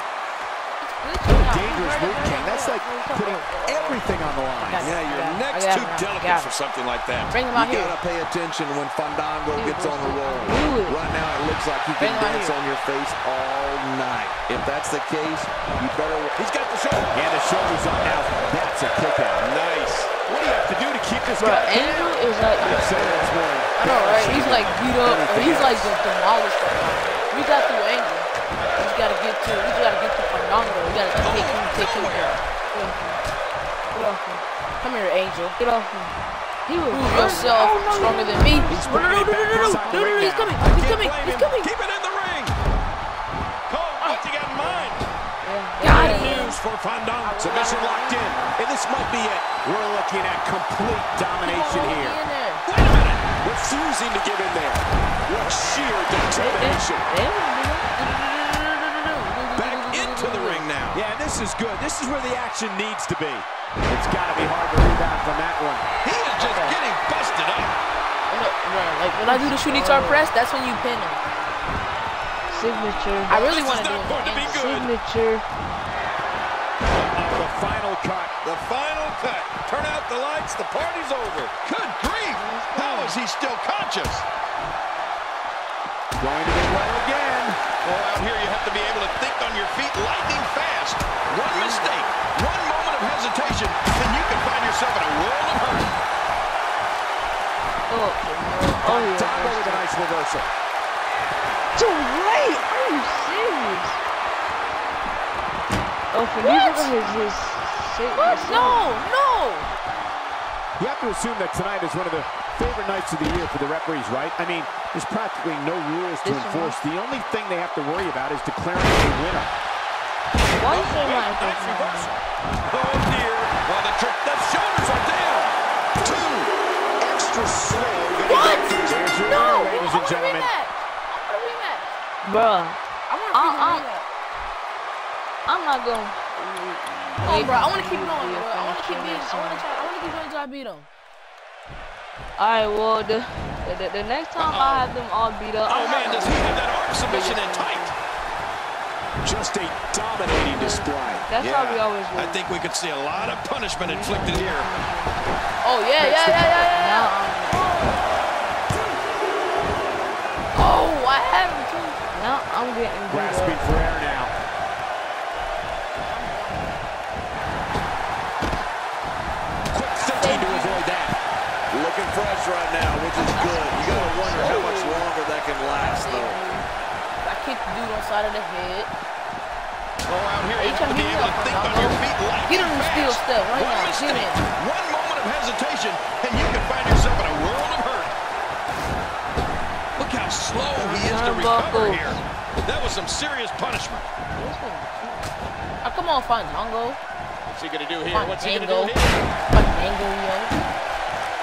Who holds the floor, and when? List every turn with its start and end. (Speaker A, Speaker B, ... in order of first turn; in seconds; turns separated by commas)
Speaker A: 0.8-4.0, Speaker B: 1.3-5.0, Speaker A: 4.6-6.5, Speaker C: 4.8-7.4, Speaker A: 7.3-8.0, Speaker D: 7.5-16.4, Speaker E: 9.5-11.0, Speaker A: 12.0-12.6, Speaker C: 16.4-17.2, Speaker B: 17.1-19.5, Speaker C: 19.4-20.2, Speaker B: 20.3-26.0, Speaker E: 21.4-23.3, Speaker A: 23.8-32.4, Speaker E: 30.6-30.9, Speaker C: 31.2-32.4, Speaker E: 32.7-33.2, Speaker E: 33.9-34.4, Speaker A: 34.8-35.6, Speaker E: 35.6-36.1, Speaker E: 36.7-40.3, Speaker A: 36.9-41.7, Speaker B: 38.7-40.6, Speaker C: 40.3-42.6, Speaker C: 43.7-45.0, Speaker A: 44.0-45.2, Speaker E: 45.3-46.6, Speaker A: 45.8-46.6, Speaker C: 45.8-48.1, Speaker A: 47.2-48.6, Speaker B: 47.4-52.2, Speaker A: 51.4-52.7, Speaker C: 52.6-53.4, Speaker B: 53.4-57.1, Speaker E: 56.3-57.9, Speaker A: 57.2-60.7, Speaker C: 59.6-61.0, Speaker B: 60.9-65.9, Speaker C: 66.0-67.8, Speaker A: 66.4-66.8, Speaker A: 68.3-71.2, Speaker E: 69.2-70.3, Speaker E: 72.5-73.4, Speaker A: 73.3-74.6, Speaker C: 73.3-74.9, Speaker E: 74.4-75.4, Speaker B: 76.8-78.3, Speaker C: 78.4-84.3, Speaker E: 82.3-83.2, Speaker B: 86.2-87.7, Speaker C: 87.8-95.9, Speaker E: 91.5-92.0, Speaker E: 97.9-99.9, Speaker B: 98.8-100.5, Speaker E: 101.8-104.0, Speaker E: 106.1-108.9, Speaker A: 106.4-106.9, Speaker A: 108.1-109.7, Speaker B: 110.8-119.5, Speaker E: 116.2-116.8, Speaker E: 120.5-122.1, Speaker C: 120.6-121.4, Speaker B: 121.4-122.1, Speaker C: 122.7-126.5, Speaker B: 126.0-126.3, Speaker B: 127.0-130.5, Speaker A: 128.3-131.9, Speaker E: 132.2-132.8, Speaker A: 133.1-134.1, Speaker E: 133.3-133.9, Speaker E: 135.5-139.7, Speaker A: 137.2-140.9, Speaker E: 142.4-147.9, Speaker C: 144.4-144.9, Speaker C: 145.7-147.9, Speaker B: 149.2-151.3, Speaker E: 150.5-152.4, Speaker C: 151.4-154.7, Speaker E: 153.1-155.4, Speaker A: 155.6-158.1, Speaker E: 156.0-157.8, Speaker A: 160.6-162.0, Speaker E: 162.1-163.6, Speaker B: 163.1-164.3, Speaker A: 166.1-166.7, Speaker B: 169.7-171.2, Speaker A: 170.0-170.8, Speaker D: 171.7-176.4, Speaker E: 173.2-174.7, Speaker A: 174.3-175.1, Speaker A: 175.7-176.7, Speaker A: 177.2-178.9, Speaker C: 180.1-188.1, Speaker A: 180.6-184.4, Speaker C: 190.0-194.1, Speaker E: 190.8-192.2, Speaker E: 194.3-195.3, Speaker A: 195.8-197.0, Speaker C: 197.4-199.3, Speaker A: 198.1-199.0, Speaker A: 199.5-200.6